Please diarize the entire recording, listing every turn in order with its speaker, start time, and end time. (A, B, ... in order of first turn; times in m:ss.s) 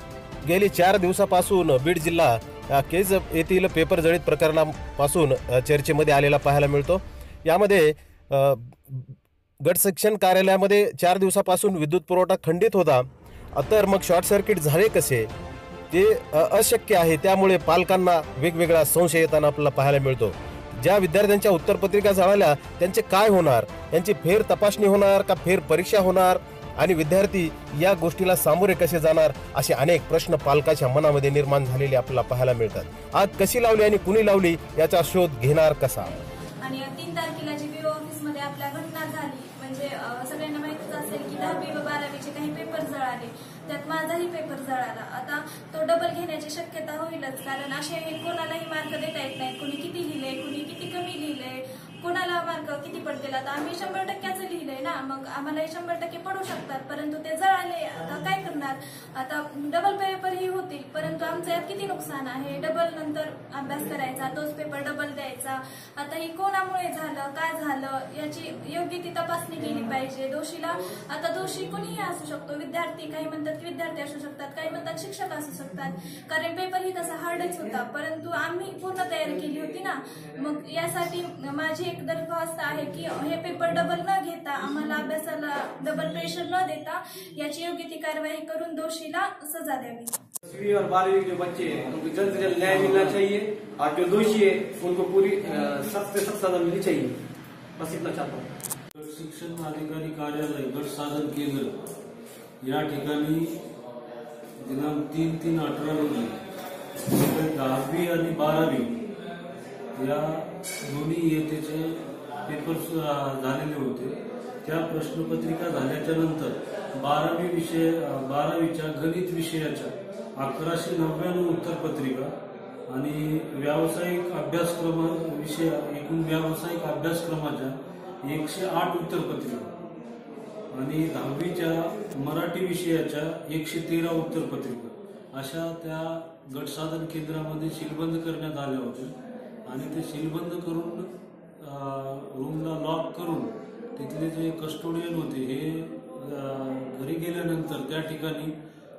0:00.4-0:15.3 A
0:15.9-0:36.2 A
0:36.6-1:30.1 B
1:30.4-1:37.2 C
1:32.2-1:33.2 D
1:37.8-1:38.5 C
1:39.0-1:41.7 D
1:42.6-1:43.6 D
1:44.6-1:46.4 D
1:47.0-1:49.0 D
1:50.0-2:02.3 D
2:02.9-2:09.7 D
2:10.7-2:19.1 D
2:19.6-2:28.6 D